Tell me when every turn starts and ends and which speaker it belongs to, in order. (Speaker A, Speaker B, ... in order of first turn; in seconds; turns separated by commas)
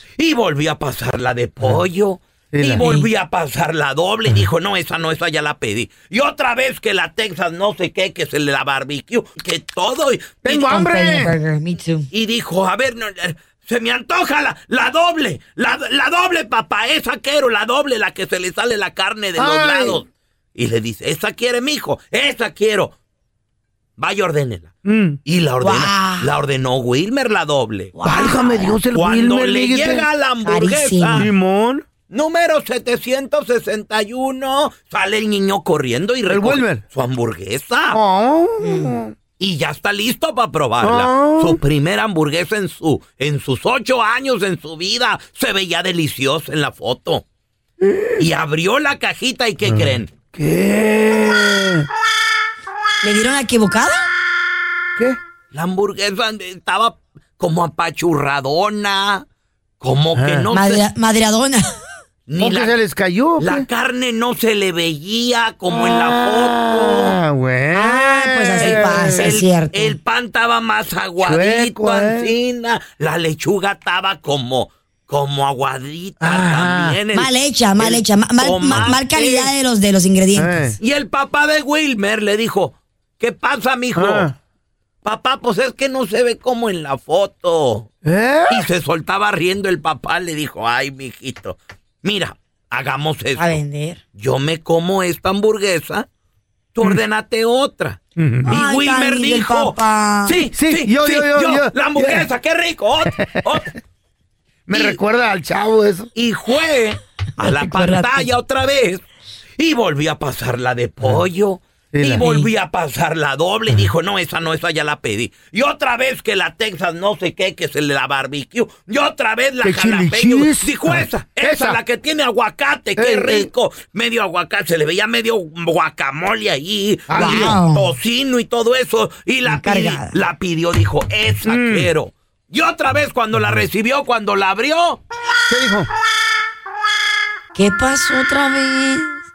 Speaker A: 0.2-10.7, Speaker B: 2.5-2.9, Speaker C: 2.8-3.1, Speaker B: 10.4-11.3, Speaker C: 10.6-12.1, Speaker A: 12.1-22.9, Speaker B: 19.4-20.0, Speaker A: 24.0-24.7, Speaker B: 24.9-25.2, Speaker A: 25.2-27.9, Speaker C: 25.6-26.3, Speaker C: 27.9-28.8, Speaker B: 28.0-30.1, Speaker A: 28.9-31.3, Speaker C: 30.4-31.2, Speaker B: 31.2-31.9, Speaker A: 32.1-38.0, Speaker B: 36.3-36.8, Speaker B: 37.9-39.2, Speaker C: 38.6-38.9, Speaker A: 39.4-47.2, Speaker B: 40.8-41.6, Speaker B: 47.8-48.2, Speaker A: 48.2-50.1, Speaker B: 49.6-51.9, Speaker C: 53.0-54.1, Speaker A: 55.5-59.2, Speaker A: 59.8-60.8, Speaker B: 60.1-60.5, Speaker C: 60.5-61.6, Speaker A: 62.3-62.7, Speaker B: 62.4-63.7, Speaker A: 63.4-67.1, Speaker B: 65.7-69.3, Speaker C: 67.7-70.0, Speaker A: 68.6-79.5, Speaker B: 71.2-72.3, Speaker B: 76.2-77.0, Speaker C: 77.1-80.8, Speaker B: 80.4-80.8, Speaker A: 80.8-84.3, Speaker B: 83.9-84.3, Speaker A: 85.0-87.9, Speaker B: 88.0-88.7, Speaker A: 88.5-93.6, Speaker C: 93.4-94.0, Speaker A: 94.1-96.1, Speaker A: 96.7-103.7, Speaker B: 98.2-98.5, Speaker C: 98.4-100.4, Speaker B: 100.6-102.3, Speaker B: 103.2-103.5, Speaker B: 104.7-106.1, Speaker A: 104.7-105.0, Speaker A: 106.1-109.0, Speaker C: 107.4-108.3, Speaker A: 109.6-135.0, Speaker B: 111.9-112.2, Speaker C: 112.2-112.5, Speaker B: 119.6-121.8, Speaker B: 123.0-123.5, Speaker B: 127.1-127.6, Speaker C: 127.1-127.9, Speaker C: 129.5-130.1, Speaker B: 131.4-131.9, Speaker B: 135.5-135.9, Speaker C: 137.6-139.2